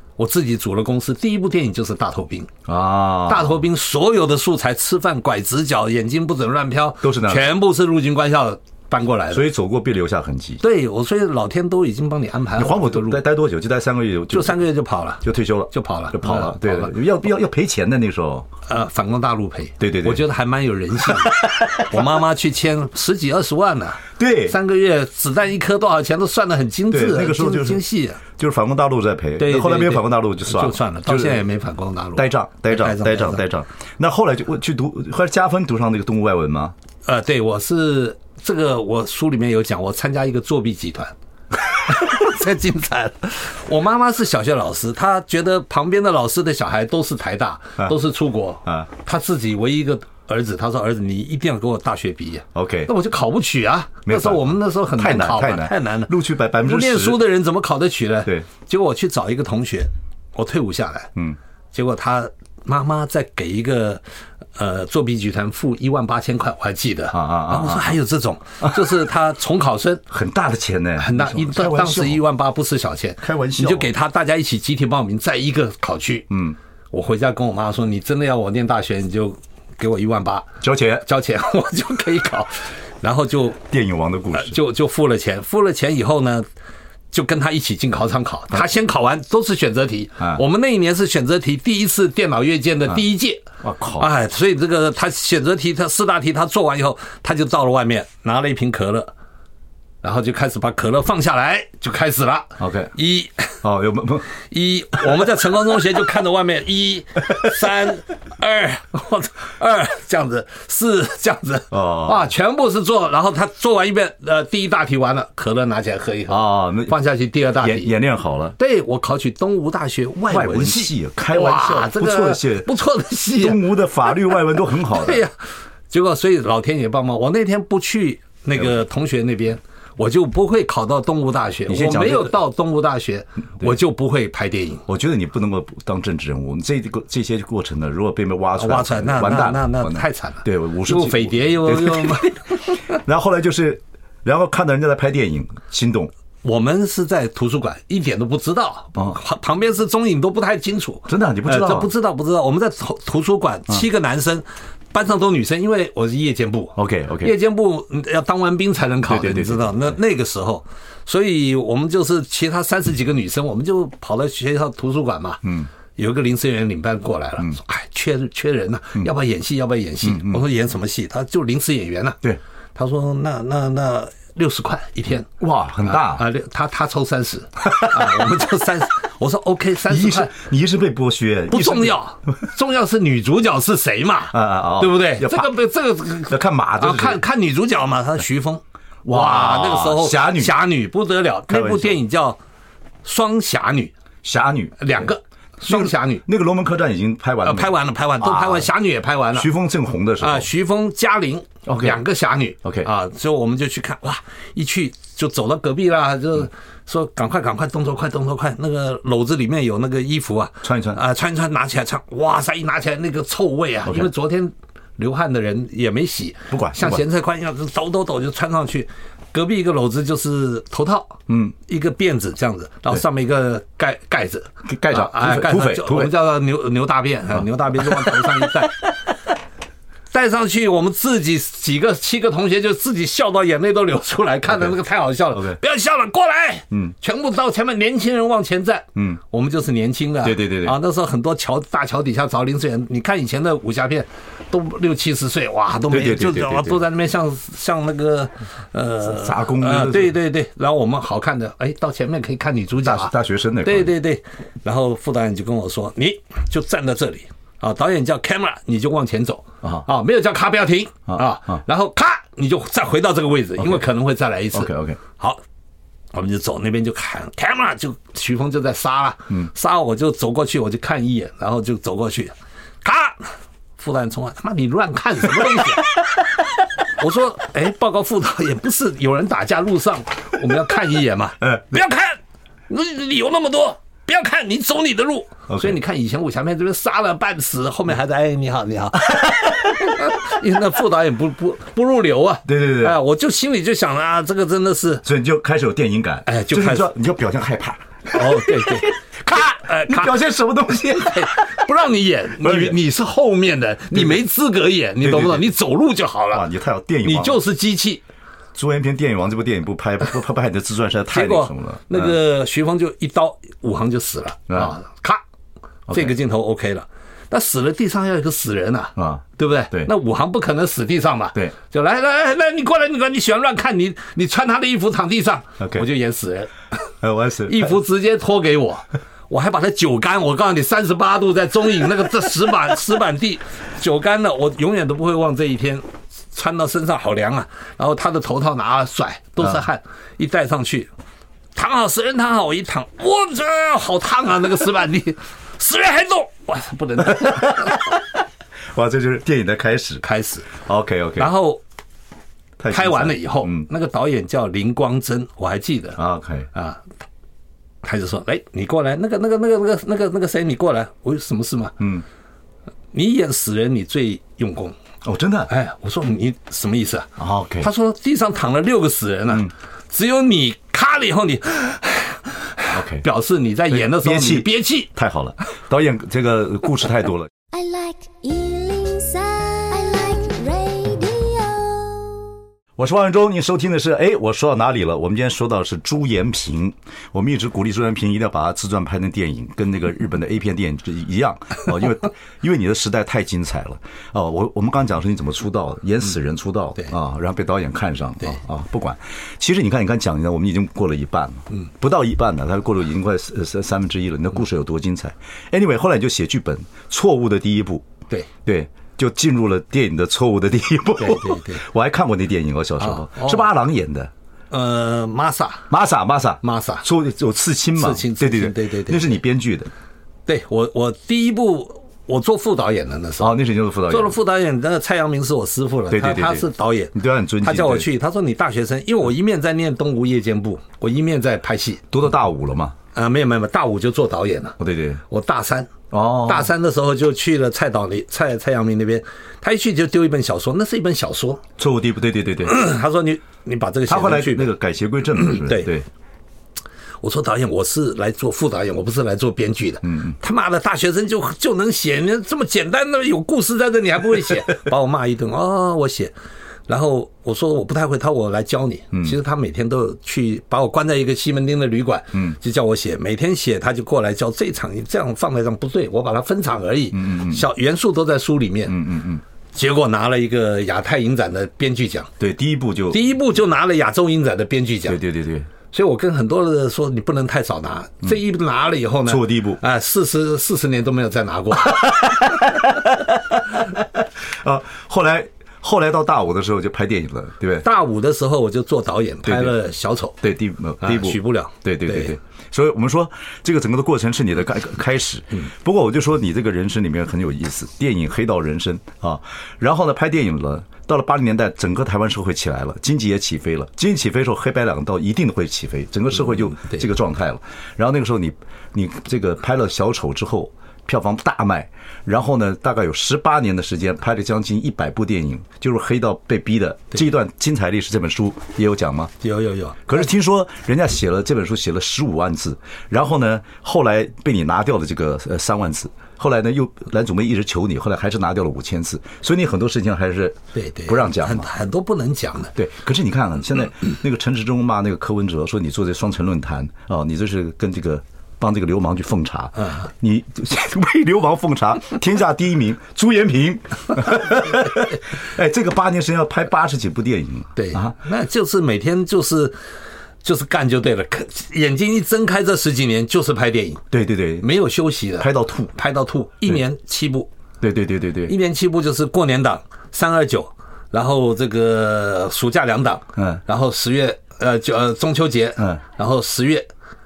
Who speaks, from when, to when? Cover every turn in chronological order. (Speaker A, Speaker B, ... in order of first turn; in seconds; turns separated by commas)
Speaker A: 0.2-2.5, Speaker B: 2.6-3.6, Speaker A: 3.3-9.4, Speaker B: 7.0-7.5, Speaker B: 9.3-10.6, Speaker A: 10.6-13.2, Speaker B: 12.6-14.6, Speaker A: 14.3-16.9, Speaker B: 15.2-18.5, Speaker A: 18.7-28.2, Speaker B: 19.8-20.2, Speaker B: 21.1-22.1, Speaker B: 24.2-24.6, Speaker B: 26.9-31.4, Speaker A: 29.4-33.4, Speaker B: 32.1-36.7, Speaker A: 37.0-41.1, Speaker A: 41.7-61.1, Speaker B: 52.5-52.9, Speaker B: 54.0-57.2, Speaker A: 61.7-64.0, Speaker A: 64.5-70.0, Speaker B: 67.1-68.0, Speaker B: 68.6-69.0, Speaker B: 70.1-72.2, Speaker A: 71.0-76.3, Speaker B: 73.2-73.9, Speaker B: 76.3-76.6, Speaker A: 76.9-83.6, Speaker B: 80.6-81.0, Speaker B: 83.6-84.6, Speaker A: 84.3-86.5, Speaker A: 87.1-93.4, Speaker B: 93.6-94.1, Speaker A: 94.0-99.1, Speaker A: 100.0-103.6, Speaker B: 102.6-102.9, Speaker B: 103.6-104.3, Speaker A: 104.4-117.9, Speaker B: 111.7-112.3, Speaker B: 116.3-117.0, Speaker B: 117.6-118.5, Speaker A: 118.6-123.6, Speaker B: 120.3-122.7, Speaker B: 123.4-125.2, Speaker A: 124.8-125.3, Speaker A: 125.9-134.8, Speaker B: 131.7-132.3, Speaker B: 134.9-142.3, Speaker A: 138.6-142.9, Speaker B: 142.9-146.1, Speaker A: 146.4-165.4, Speaker B: 151.1-151.9, Speaker B: 156.8-157.3, Speaker B: 159.1-160.0, Speaker B: 165.4-165.7, Speaker A: 165.9-172.2, Speaker B: 170.0-170.4, Speaker A: 172.7-175.3, Speaker B: 175.4-176.2, Speaker A: 175.8-180.3, Speaker B: 177.7-178.2, Speaker B: 179.9-182.0, Speaker A: 181.5-192.4, Speaker B: 184.3-185.5, Speaker B: 186.3-187.2, Speaker B: 189.0-190.6, Speaker B: 191.5-192.0, Speaker A: 193.0-193.9, Speaker B: 194.2-195.1, Speaker A: 194.8-196.2, Speaker B: 195.6-198.7, Speaker A: 197.4-199.5, Speaker B: 199.3-200.5, Speaker A: 200.2-228.9, Speaker B: 201.7-202.0, Speaker B: 202.6-202.9, Speaker B: 210.6-211.0, Speaker B: 216.5-217.0, Speaker B: 221.3-221.5, Speaker B: 224.7-226.1, Speaker B: 227.8-228.3, Speaker A: 230.1-265.4, Speaker B: 240.2-240.8, Speaker B: 245.9-246.8, Speaker B: 249.0-250.2, Speaker B: 252.8-253.9, Speaker B: 261.1-261.6, Speaker B: 263.6-263.8, Speaker B: 264.5-265.0, Speaker A: 266.1-275.9, Speaker A: 277.0-282.2, Speaker A: 282.7-295.0, Speaker B: 285.5-285.8, Speaker B: 289.2-289.9, Speaker B: 292.4-293.0, Speaker B: 295.0-301.7, Speaker A: 296.2-296.9, Speaker A: 298.1-300.2, Speaker A: 300.9-306.4, Speaker B: 302.4-302.8, Speaker B: 303.9-304.2, Speaker B: 305.0-305.4, Speaker B: 306.3-307.4, Speaker A: 307.0-308.0, Speaker B: 308.5-312.1, Speaker A: 311.1-315.2, Speaker B: 315.9-316.1, Speaker A: 315.9-326.5, Speaker B: 318.9-319.9, Speaker B: 325.6-325.8, Speaker B: 327.0-327.8, Speaker A: 327.4-340.9, Speaker A: 341.5-347.8, Speaker B: 347.1-348.0, Speaker B: 348.7-350.0, Speaker A: 350.0-350.5, Speaker B: 350.6-351.3, Speaker A: 351.2-351.6, Speaker B: 352.6-353.6, Speaker A: 352.7-356.0, Speaker B: 356.0-356.5, Speaker A: 356.5-356.8, Speaker A: 357.8-361.8, Speaker A: 362.9-364.7, Speaker B: 365.0-365.5, Speaker A: 365.5-374.9, Speaker B: 367.2-367.7, Speaker B: 372.7-373.1, Speaker B: 373.7-377.3, Speaker C: 377.5-382.3, Speaker B: 382.8-407.9, Speaker B: 408.4-414.1, Speaker A: 411.0-411.6, Speaker A: 412.8-413.4, Speaker A: 414.5-415.7, Speaker B: 415.7-419.7, Speaker A: 416.4-416.9, Speaker A: 417.8-419.1, Speaker A: 420.3-423.3, Speaker B: 423.2-424.1, Speaker A: 423.9-431.8, Speaker B: 425.9-427.9, Speaker B: 431.9-432.8, Speaker A: 432.9-434.6, Speaker B: 434.6-435.0, Speaker A: 435.1-441.4, Speaker B: 435.9-436.5, Speaker B: 441.6-442.6, Speaker A: 442.4-444.5, Speaker B: 443.9-445.9, Speaker A: 445.2-445.7, Speaker A: 447.0-456.1, Speaker B: 449.8-450.1, Speaker A: 456.7-468.8, Speaker B: 466.9-467.4, Speaker B: 468.7-469.2, Speaker A: 469.5-472.1, Speaker B: 472.2-473.0, Speaker A: 472.9-475.0, Speaker B: 474.9-475.5, Speaker A: 475.7-481.9, Speaker B: 479.1-479.6, Speaker B: 481.7-487.6, Speaker A: 487.6-490.2, Speaker B: 489.2-489.6, Speaker B: 490.2-519.1, Speaker A: 490.8-492.1, Speaker A: 519.2-519.9, Speaker B: 519.9-531.5, Speaker A: 530.5-532.5, Speaker B: 532.5-547.9, Speaker A: 539.6-539.8, Speaker A: 547.5-549.5, Speaker A: 550.2-553.8, Speaker B: 553.9-554.5, Speaker A: 554.4-557.3, Speaker B: 555.2-555.7, Speaker B: 557.6-558.3, Speaker A: 558.2-566.7, Speaker B: 563.2-563.4